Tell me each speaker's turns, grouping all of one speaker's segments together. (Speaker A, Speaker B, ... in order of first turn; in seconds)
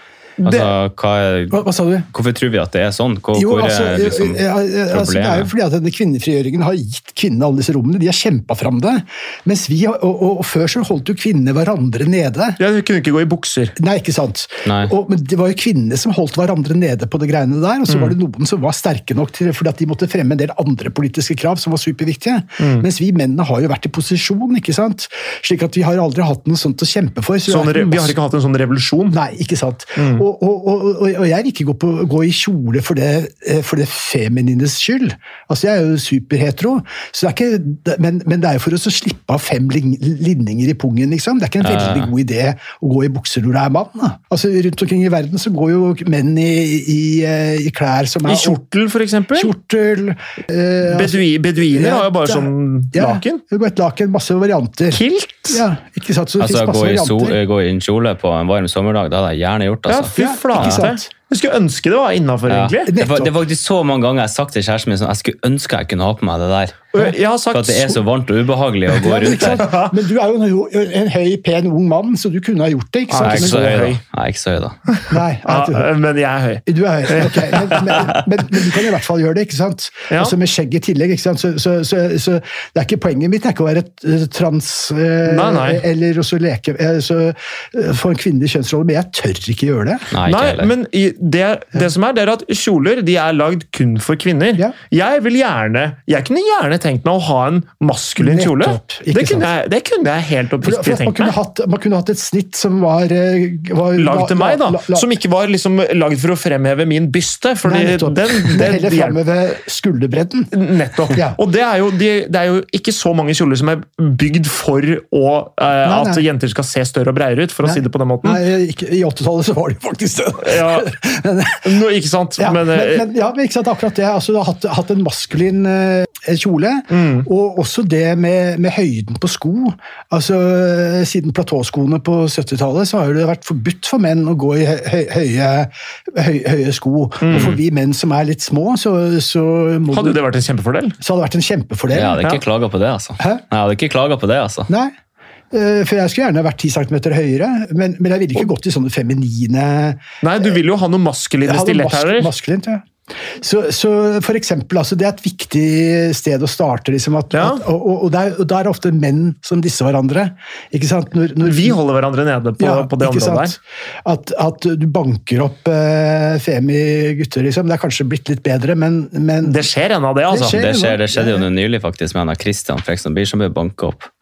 Speaker A: 0.4-0.7, 12.6-13.7, 17.9-18.1, 22.6-22.8, 27.5-29.2, 29.9-30.2, 48.2-49.5, 50.8-53.4, 54.9-55.6, 59.9-62.9, 66.9-68.0, 69.2-69.9, 73.1-74.0, 74.9-78.1, 85.2-85.8, 90.2-101.3, 104.0-109.2, 110.5-118.4, 120.4-120.9, 121.6-123.1, 126.9-127.3, 137.2-137.6, 139.9-141.0, 150.2-152.3, 157.3-157.6, 161.4-163.5, 169.4-170.6
Speaker B: 0.4-5.5, 14.6-14.9, 41.6-42.1, 56.4-60.8, 62.5-66.9, 67.5-69.7, 73.2-74.8, 90.1-90.7, 141.9-144.7, 170.5-174.1
Speaker C: 1.5-2.1, 3.3-12.6, 13.8-28.1, 29.1-48.6, 49.3-57.4, 60.1-61.1, 62.9-63.3, 69.0-73.8, 75.1-75.9, 76.7-90.1, 98.2-99.5, 100.6-105.1, 107.6-110.5, 111.1-111.4, 115.8-116.2, 117.6-121.7, 122.4-140.2, 141.0-142.2, 143.2-143.4, 144.7-144.9, 145.5-150.5, 151.4-161.8, 162.6-169.6, 170.3-171.5